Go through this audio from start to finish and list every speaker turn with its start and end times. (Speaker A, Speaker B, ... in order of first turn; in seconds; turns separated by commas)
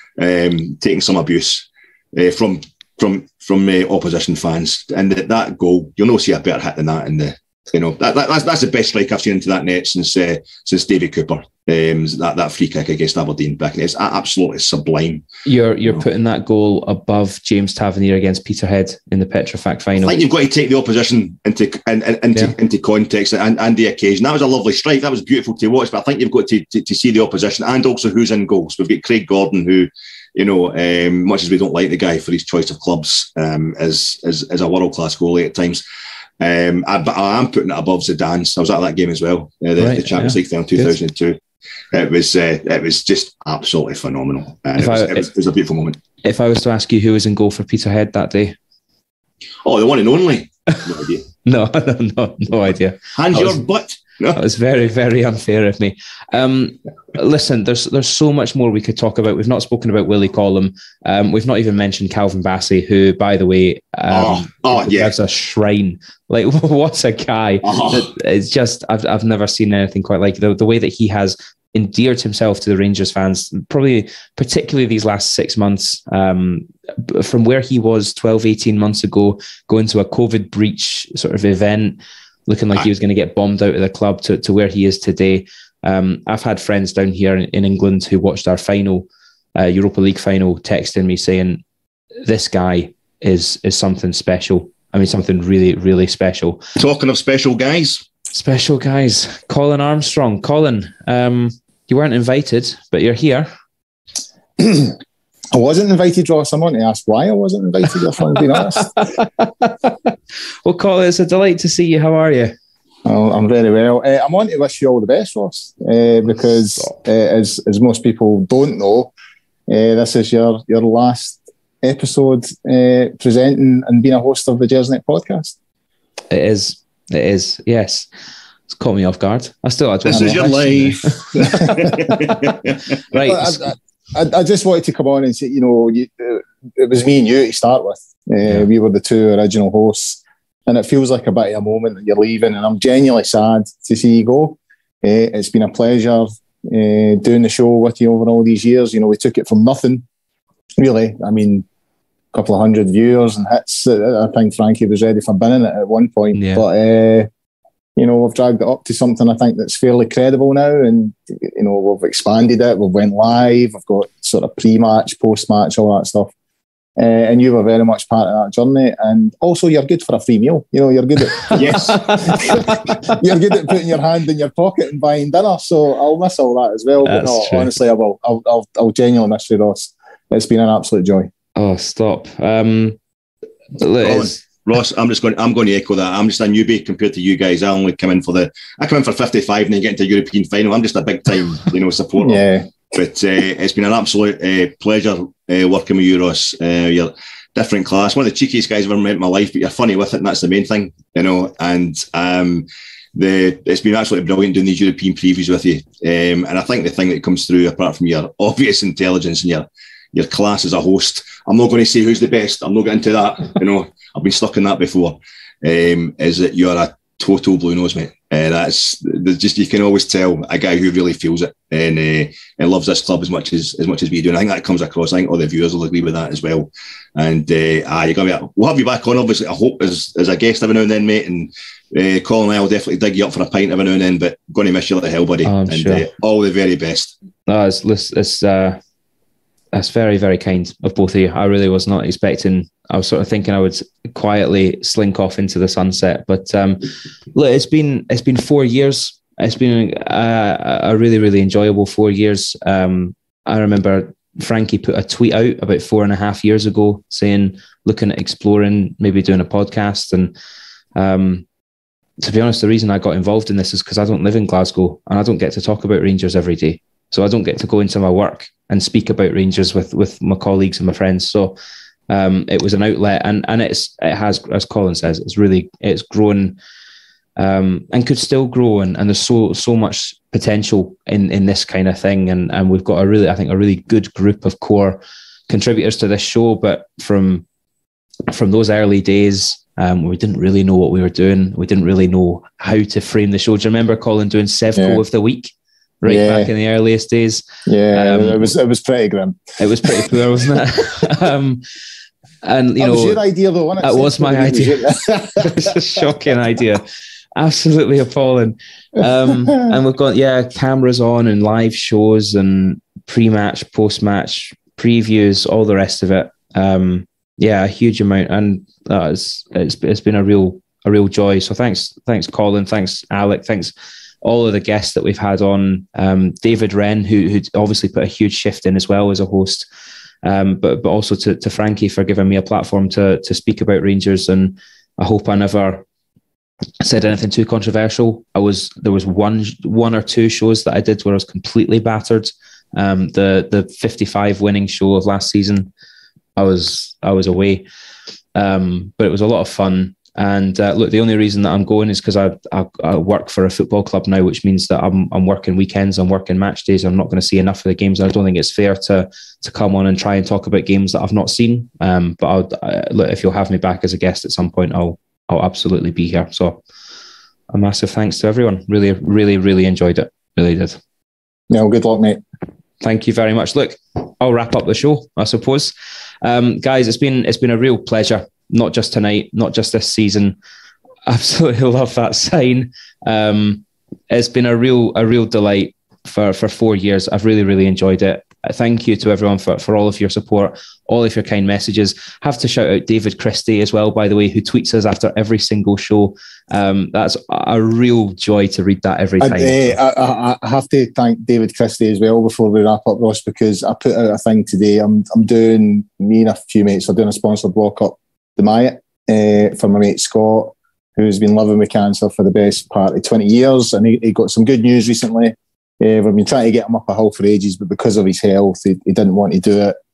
Speaker A: 0.2-15.3, Speaker B: 15.5-20.2, Speaker A: 20.0-35.8, Speaker A: 36.4-41.4, Speaker B: 39.8-40.9, Speaker A: 41.9-46.0, Speaker B: 44.8-45.3, Speaker B: 46.2-48.6, Speaker A: 49.6-51.3, Speaker B: 51.4-53.6, Speaker A: 53.1-54.4, Speaker B: 54.4-91.6, Speaker A: 64.1-65.1, Speaker A: 67.6-68.1, Speaker B: 92.2-96.6, Speaker A: 96.8-98.0, Speaker B: 98.3-103.5, Speaker C: 104.6-105.0, Speaker C: 105.5-109.1, Speaker B: 108.8-110.1, Speaker B: 110.7-112.5, Speaker C: 113.0-119.1, Speaker B: 116.3-117.0, Speaker C: 119.7-125.5, Speaker B: 126.3-128.1, Speaker B: 128.7-132.5, Speaker A: 130.1-132.8, Speaker C: 131.4-131.9, Speaker B: 133.1-133.7, Speaker C: 133.1-150.0, Speaker C: 150.8-151.7, Speaker C: 152.3-157.3, Speaker B: 156.3-156.6, Speaker C: 158.0-166.3, Speaker C: 167.0-181.3, Speaker A: 171.5-172.6, Speaker B: 171.5-172.7, Speaker B: 177.0-177.7, Speaker B: 181.6-183.0, Speaker B: 183.8-184.4, Speaker A: 184.0-237.1, Speaker C: 192.2-192.7, Speaker B: 235.4-236.1, Speaker B: 237.5-238.8, Speaker B: 239.7-260.3, Speaker B: 261.0-261.4, Speaker B: 262.2-271.6, Speaker B: 272.1-276.6, Speaker B: 277.4-287.4, Speaker B: 288.3-298.5, Speaker C: 294.8-295.0, Speaker C: 296.1-296.5, Speaker C: 297.7-300.1, Speaker B: 299.6-301.6, Speaker B: 302.4-303.2, Speaker C: 302.8-306.1, Speaker B: 303.8-329.7, Speaker C: 309.4-309.8, Speaker B: 330.2-335.8, Speaker B: 336.8-345.7, Speaker B: 346.4-347.6, Speaker B: 348.4-366.6, Speaker B: 367.5-370.8, Speaker C: 371.5-372.2, Speaker B: 372.8-380.4, Speaker B: 381.1-399.8, Speaker C: 399.2-419.8